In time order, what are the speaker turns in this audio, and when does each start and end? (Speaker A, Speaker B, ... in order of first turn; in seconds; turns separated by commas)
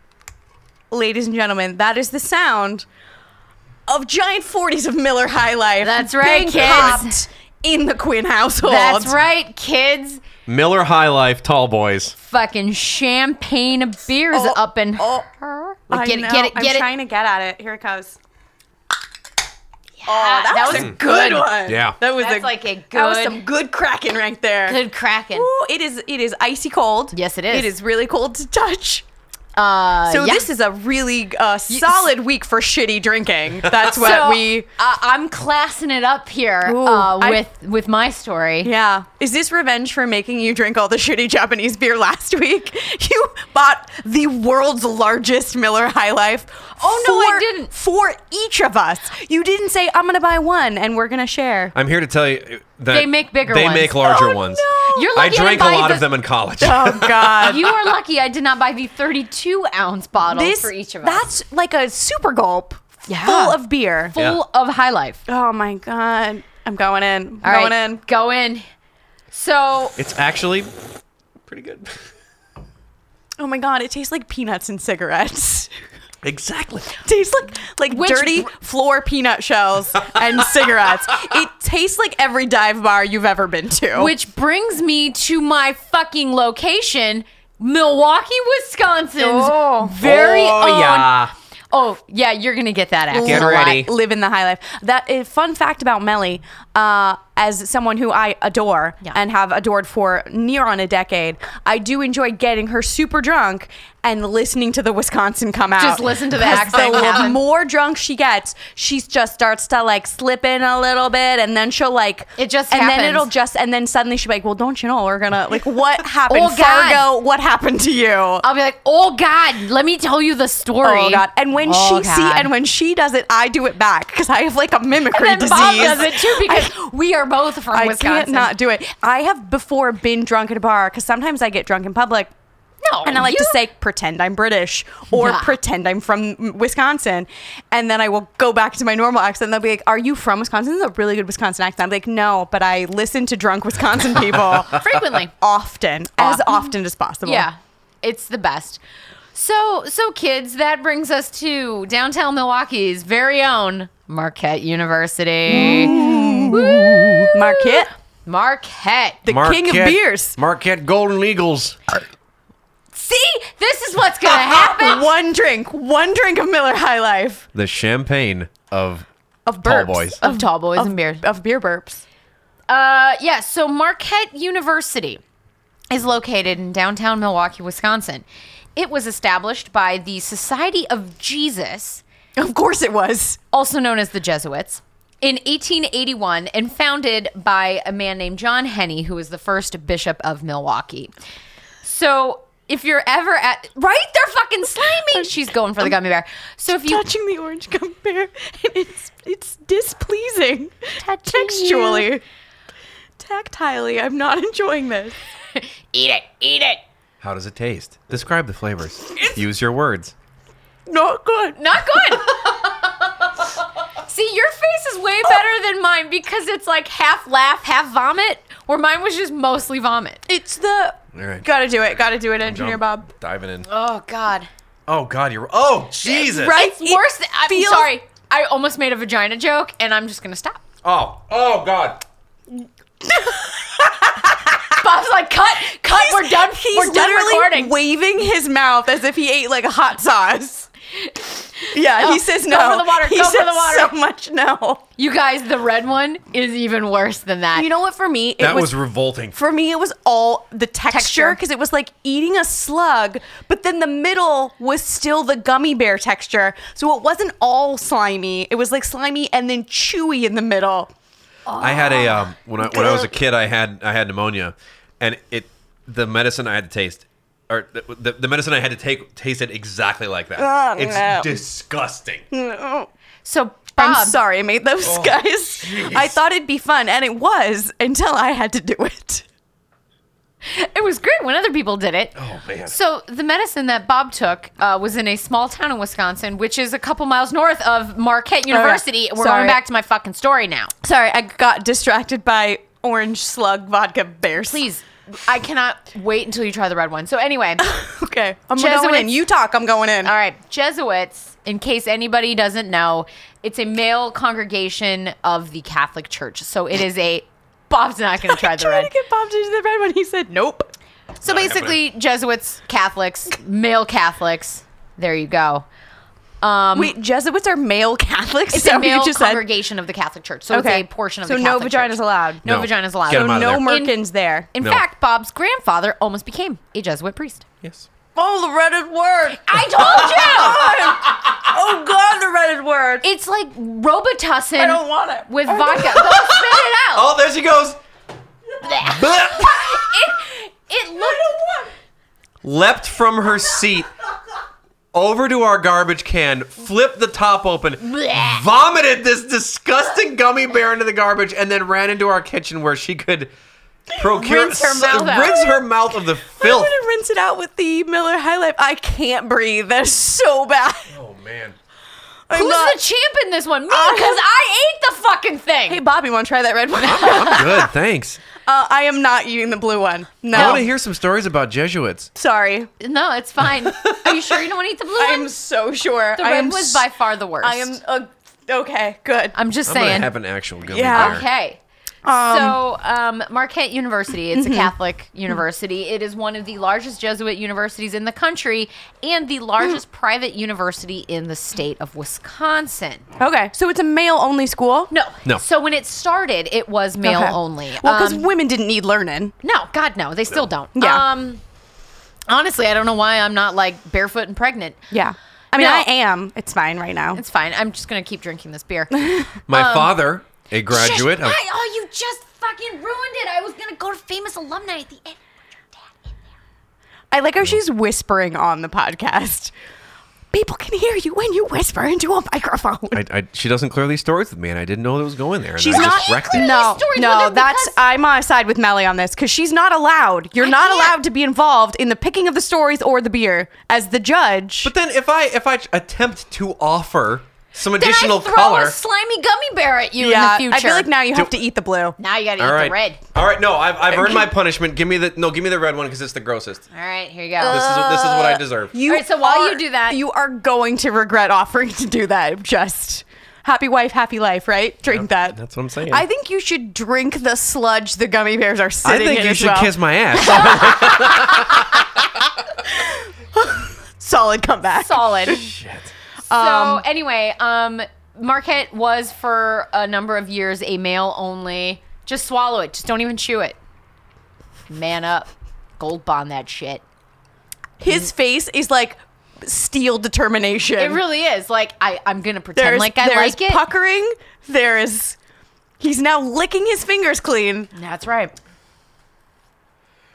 Speaker A: 0.9-2.9, Speaker A: 3.9-9.1, Speaker B: 5.8-7.2, Speaker C: 6.6-7.0, Speaker B: 8.6-10.2, Speaker C: 10.5-12.2, Speaker B: 12.2-16.9, Speaker A: 14.3-15.3, Speaker A: 15.9-18.2, Speaker B: 20.0-23.4, Speaker A: 20.1-24.8, Speaker C: 20.7-21.0, Speaker C: 21.6-22.0, Speaker B: 24.7-25.5, Speaker A: 25.3-29.0, Speaker B: 27.1-27.8, Speaker B: 29.6-30.5, Speaker A: 30.1-34.7, Speaker B: 31.7-32.1, Speaker B: 34.0-38.7, Speaker A: 36.7-37.4, Speaker A: 38.6-51.7, Speaker B: 46.8-47.7, Speaker C: 51.7-57.7, Speaker B: 52.9-56.1, Speaker A: 54.0-55.1, Speaker A: 56.6-57.7, Speaker B: 57.4-61.2, Speaker A: 60.3-64.2, Speaker B: 63.1-63.6, Speaker B: 64.1-65.2, Speaker C: 64.2-64.4, Speaker A: 65.3-68.0, Speaker B: 67.4-68.6, Speaker B: 69.3-70.0, Speaker C: 70.0-70.7, Speaker C: 71.5-72.0, Speaker A: 73.4-75.7, Speaker C: 76.2-77.0, Speaker A: 77.0-84.1, Speaker B: 77.9-78.5, Speaker B: 83.9-91.2, Speaker A: 89.2-90.0, Speaker C: 90.0-91.3, Speaker B: 91.7-93.9, Speaker A: 93.1-118.5, Speaker C: 93.2-93.9, Speaker B: 105.8-107.4, Speaker B: 112.4-113.3, Speaker B: 116.3-117.0, Speaker B: 118.4-122.5, Speaker A: 120.8-126.8, Speaker B: 125.1-128.5, Speaker A: 127.7-132.3, Speaker B: 132.8-133.6, Speaker A: 133.1-147.5, Speaker B: 135.1-135.6, Speaker B: 144.7-145.3, Speaker B: 146.2-146.7, Speaker B: 147.2-148.8, Speaker B: 149.3-159.2, Speaker A: 155.5-157.9, Speaker A: 159.2-160.4, Speaker C: 159.3-161.8, Speaker B: 162.9-165.1, Speaker A: 164.3-167.4, Speaker C: 167.6-169.1, Speaker A: 169.5-172.0, Speaker C: 169.6-170.2, Speaker B: 170.2-171.2, Speaker B: 172.7-175.2, Speaker B: 175.9-178.2, Speaker B: 178.8-182.0, Speaker A: 182.4-183.4, Speaker B: 183.5-191.1, Speaker B: 191.8-197.1, Speaker A: 196.8-202.2, Speaker B: 201.0-202.1, Speaker A: 203.2-205.2, Speaker B: 205.6-206.8, Speaker C: 207.2-210.1, Speaker A: 210.9-212.2, Speaker B: 211.6-212.9, Speaker B: 214.0-220.2, Speaker A: 220.3-223.1, Speaker C: 221.1-221.5, Speaker C: 222.4-223.7, Speaker B: 223.7-224.5, Speaker C: 224.9-226.6, Speaker A: 226.1-227.9, Speaker B: 226.2-230.6, Speaker C: 230.8-232.0, Speaker B: 234.8-237.7, Speaker A: 235.7-240.7, Speaker B: 241.0-243.9, Speaker A: 241.7-244.8, Speaker B: 245.0-247.7, Speaker A: 247.6-248.8, Speaker C: 248.4-249.4, Speaker A: 249.3-260.9, Speaker B: 250.9-251.4, Speaker B: 261.5-262.2, Speaker C: 261.6-272.3, Speaker A: 262.7-263.1, Speaker A: 270.4-271.4, Speaker A: 272.3-272.9, Speaker B: 273.2-274.2, Speaker A: 273.8-279.2, Speaker C: 274.8-276.2, Speaker B: 280.5-290.7, Speaker C: 282.2-282.7, Speaker A: 288.5-289.6, Speaker A: 290.8-294.6, Speaker B: 294.5-297.7, Speaker A: 297.6-300.1, Speaker B: 298.6-299.2, Speaker B: 300.0-308.9, Speaker A: 308.2-310.7, Speaker B: 311.2-315.7, Speaker C: 311.2-311.8, Speaker B: 316.4-316.9, Speaker A: 316.8-319.4, Speaker B: 318.5-324.0, Speaker A: 320.5-324.5, Speaker C: 322.4-323.7, Speaker B: 324.5-327.4, Speaker C: 327.6-327.9, Speaker A: 328.1-333.1, Speaker B: 329.4-330.8, Speaker C: 331.0-331.5, Speaker B: 333.0-337.1, Speaker A: 334.6-336.2, Speaker C: 336.0-337.8, Speaker B: 338.6-341.5, Speaker C: 338.8-339.9, Speaker A: 341.0-341.6, Speaker C: 342.4-343.9, Speaker C: 344.9-353.3, Speaker B: 347.9-348.4, Speaker C: 354.0-356.8, Speaker B: 354.1-355.4, Speaker A: 354.9-355.6, Speaker A: 356.4-360.9, Speaker C: 360.9-361.6, Speaker A: 362.3-362.8, Speaker B: 362.3-365.8, Speaker A: 363.7-364.2, Speaker A: 365.7-367.7, Speaker C: 366.8-368.2, Speaker A: 368.5-370.7, Speaker C: 370.3-372.1, Speaker B: 370.4-370.6, Speaker A: 372.1-372.7, Speaker B: 372.8-375.3, Speaker C: 373.8-374.1, Speaker A: 375.0-376.9, Speaker B: 376.2-377.8, Speaker A: 377.4-379.4, Speaker B: 379.3-380.1, Speaker C: 379.7-381.2, Speaker A: 380.7-381.2, Speaker B: 380.9-393.1, Speaker A: 382.1-382.6, Speaker A: 384.3-384.7, Speaker A: 393.2-394.9, Speaker B: 394.9-398.3, Speaker A: 397.0-399.3, Speaker B: 399.4-401.4, Speaker A: 400.8-401.1, Speaker B: 402.3-404.8, Speaker A: 404.9-407.2, Speaker B: 405.6-405.9, Speaker B: 407.1-410.0, Speaker C: 409.5-411.4, Speaker B: 410.7-415.2, Speaker B: 415.7-416.1, Speaker A: 417.1-419.5, Speaker A: 420.3-423.0, Speaker C: 422.9-426.5, Speaker A: 425.6-434.7, Speaker B: 425.7-427.8, Speaker B: 430.4-431.0, Speaker C: 434.6-438.8, Speaker B: 437.8-440.9, Speaker A: 440.0-442.0, Speaker B: 442.0-443.0, Speaker C: 442.4-446.7, Speaker B: 446.7-447.6, Speaker A: 447.4-461.4, Speaker C: 447.5-448.7, Speaker B: 448.9-450.0, Speaker C: 454.9-456.1, Speaker C: 458.8-462.1, Speaker A: 462.7-465.4, Speaker B: 464.8-465.5, Speaker C: 465.3-465.9, Speaker A: 466.3-466.8, Speaker B: 466.3-473.6, Speaker B: 474.7-476.8, Speaker A: 477.8-481.0, Speaker B: 480.8-483.6, Speaker A: 482.6-485.2, Speaker A: 485.8-487.7, Speaker B: 487.7-488.3